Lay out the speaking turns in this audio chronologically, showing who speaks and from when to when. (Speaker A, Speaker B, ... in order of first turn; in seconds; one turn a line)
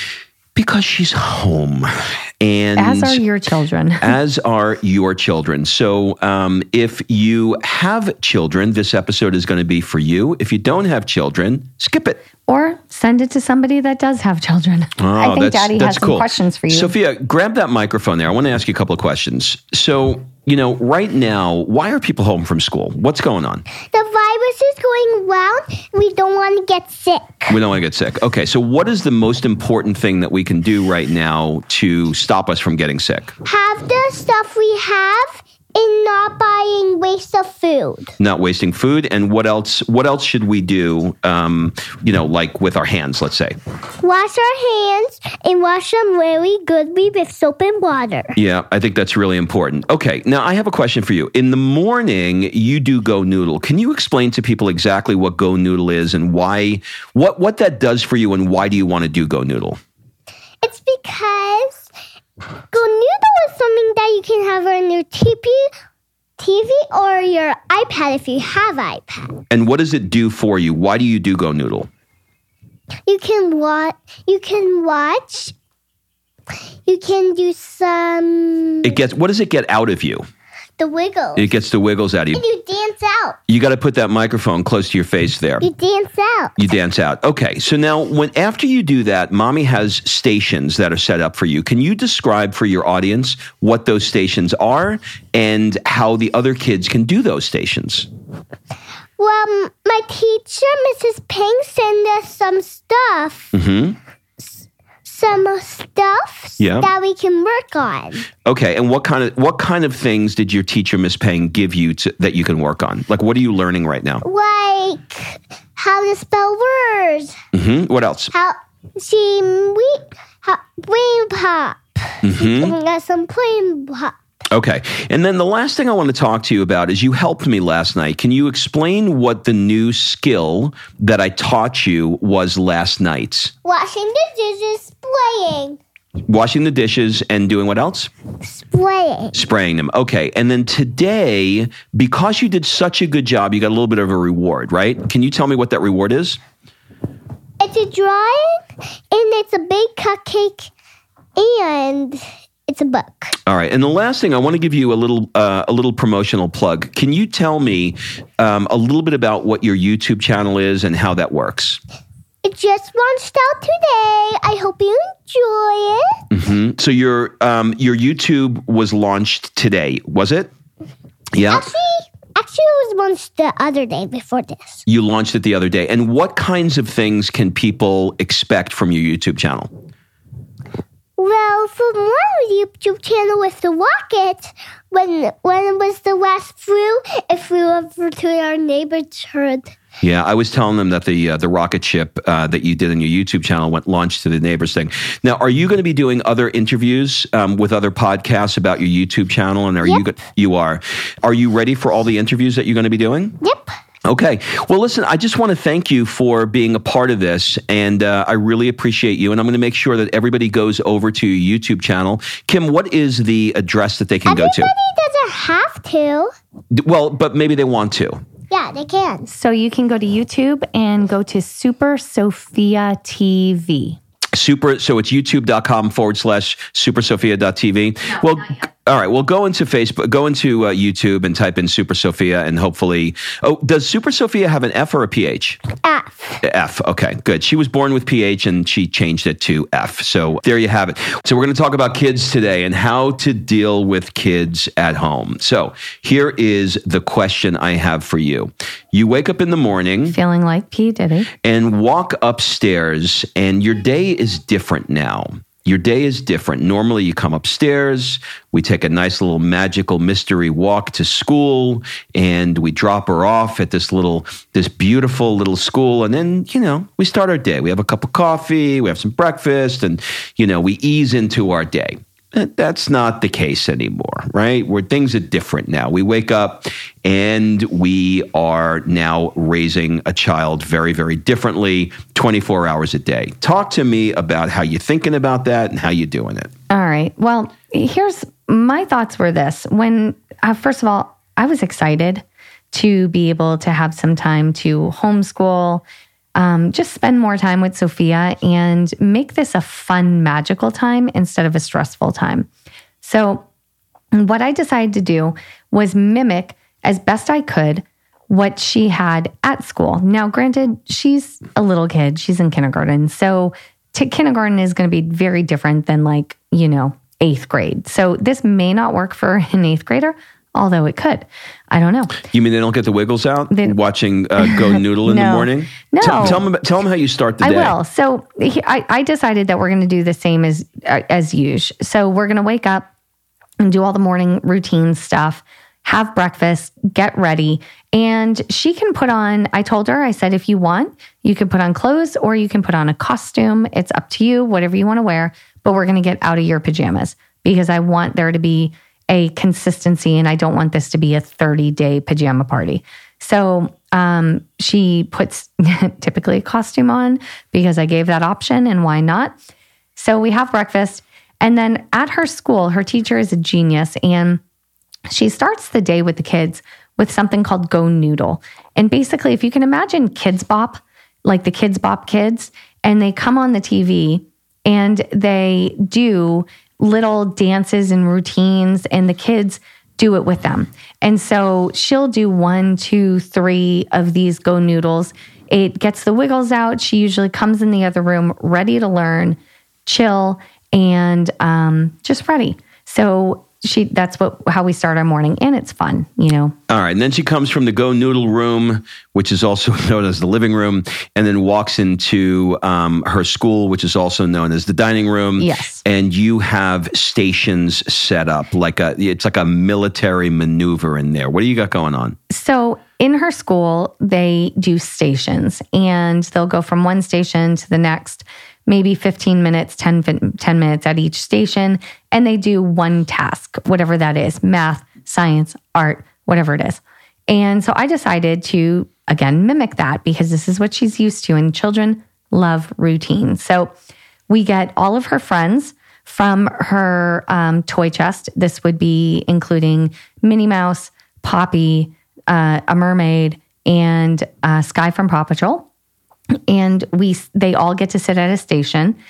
Speaker A: 0.5-3.2
Speaker B: 2.8-4.2
Speaker A: 4.0-12.2
Speaker B: 12.5-16.9
Speaker A: 15.0-23.6
Speaker C: 23.9-27.6
Speaker A: 27.5-33.3
Speaker C: 33.4-38.1
Speaker A: 38.2-43.6
Speaker C: 44.0-48.3
Speaker A: 48.3-59.8
Speaker C: 60.6-61.8
Speaker C: 62.7-65.7
Speaker C: 66.4-69.3
Speaker A: 69.5-71.9
Speaker C: 73.1-75.5
Speaker C: 76.8-79.0
Speaker A: 78.8-80.2
Speaker C: 80.8-81.5
Speaker A: 81.3-82.4
Speaker C: 82.3-83.4
Speaker A: 83.5-85.7
Speaker C: 85.6-86.6
Speaker A: 86.6-98.1
Speaker C: 99.2-103.5
Speaker A: 103.5-104.0
Speaker C: 105.0-108.3
Speaker A: 106.6-106.9
Speaker A: 108.4-114.2
Speaker C: 114.2-117.4
Speaker A: 117.5-118.3
Speaker C: 118.3-124.2
Speaker A: 122.2-122.7
Speaker A: 124.5-133.5
Speaker C: 133.6-135.8
Speaker A: 136.3-138.1
Speaker C: 138.5-139.3
Speaker A: 139.3-146.4
Speaker C: 147.6-150.7
Speaker C: 151.3-153.3
Speaker A: 153.4-161.8
Speaker C: 162.4-166.2
Speaker A: 166.3-170.5
Speaker A: 171.3-171.7
Speaker C: 171.5-174.8
Speaker A: 174.8-179.7
Speaker C: 181.2-189.7
Speaker A: 190.0-203.4
Speaker C: 203.4-203.7
Speaker A: 204.0-214.7
Speaker C: 214.2-216.3
Speaker A: 216.7-218.2
Speaker C: 218.5-219.3
Speaker B: 219.3-224.0
Speaker A: 224.3-235.6
Speaker C: 235.8-236.4
Speaker A: 236.4-250.2
Speaker B: 250.1-251.3
Speaker A: 251.4-286.5
Speaker B: 286.7-295.8
Speaker B: 296.4-302.5
Speaker B: 303.0-303.4
Speaker B: 304.1-322.2
Speaker A: 322.2-327.8
Speaker B: 323.5-323.8
Speaker B: 324.4-326.4
Speaker B: 327.4-332.9
Speaker B: 333.6-359.4
Speaker B: 359.9-364.4
Speaker B: 365.1-396.5
Speaker A: 396.7-412.1
Speaker B: 405.4-405.8
Speaker B: 412.3-433.7
Speaker B: 434.3-445.7
Speaker B: 446.5-449.0